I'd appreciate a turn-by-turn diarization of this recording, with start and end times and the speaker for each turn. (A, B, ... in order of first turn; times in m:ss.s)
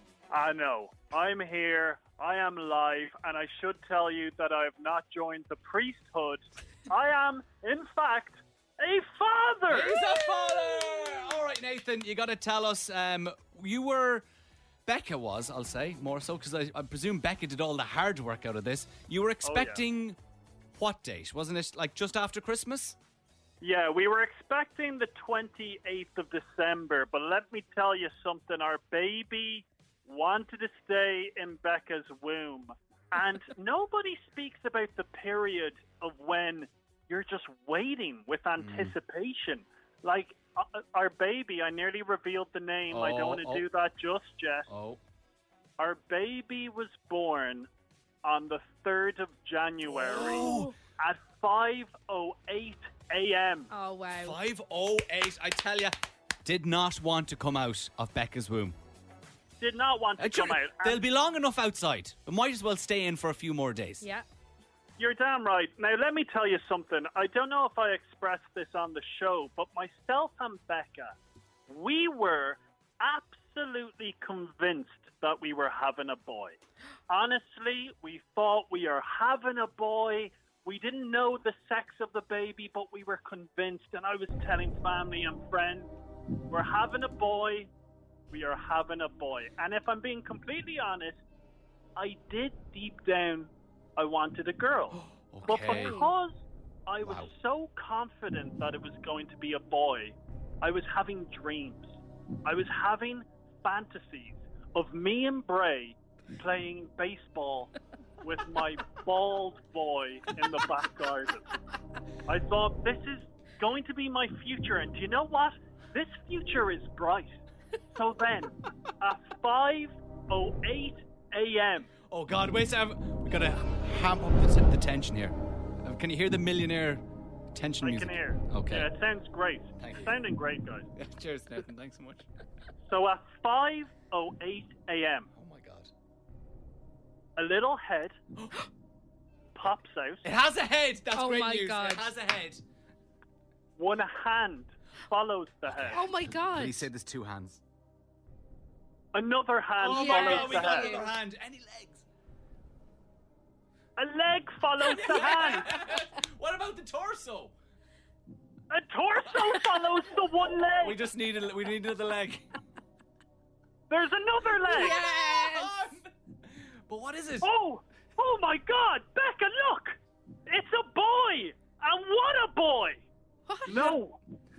0:00.3-0:10.0 A
0:09.7-0:14.2 B
0:14.8-0:20.2 B
0:19.4-0:19.8 A
0:20.8-0:23.0 B
0:23.6-0:44.7 A
0:38.6-0:38.9 B
0:42.9-0:43.6 B
0:44.7-0:45.0 B
0:45.8-0:47.7 A
0:48.2-0:53.7 A
0:49.9-0:50.7 B
0:50.1-0:50.7 C
0:53.7-0:54.4 C
0:54.2-0:58.8 B
0:59.6-1:01.0 A
1:00.2-1:04.0 B
1:05.0-1:11.1 A
1:11.7-1:16.6 A
1:17.1-1:25.9 A
1:26.5-1:27.7 A
1:28.3-1:31.2 A
1:32.0-1:41.9 A
1:34.9-1:36.0 B
1:35.4-1:36.1 C
1:37.0-1:37.3 B
1:42.4-1:47.7 A
1:48.2-1:51.5 A
1:52.3-1:57.4 A
1:57.9-2:01.9 A
2:02.1-2:07.0 B
2:07.5-2:08.9 B
2:07.8-2:10.9 A
2:09.8-2:10.2 B
2:11.0-2:12.3 B
2:12.9-2:15.3 A
2:15.4-2:15.9 B
2:17.4-2:18.2 A
2:19.6-2:20.2 A
2:20.2-2:22.6 B
2:21.1-2:22.1 C
2:23.8-2:26.0 A
2:25.6-2:27.6 B
2:25.9-2:26.8 C
2:29.1-2:31.0 A
2:29.8-2:32.0 B
2:29.8-2:31.1 C
2:34.0-2:35.7 A
2:34.8-2:37.5 B
2:38.7-2:41.0 A
2:39.2-2:39.8 B
2:40.8-2:42.5 B
2:43.9-2:45.0 A
2:44.6-2:45.7 C
2:44.6-2:46.1 B
2:46.9-2:47.5 B
2:47.4-2:53.0 A
2:53.5-2:54.0 C
2:53.7-2:54.2 A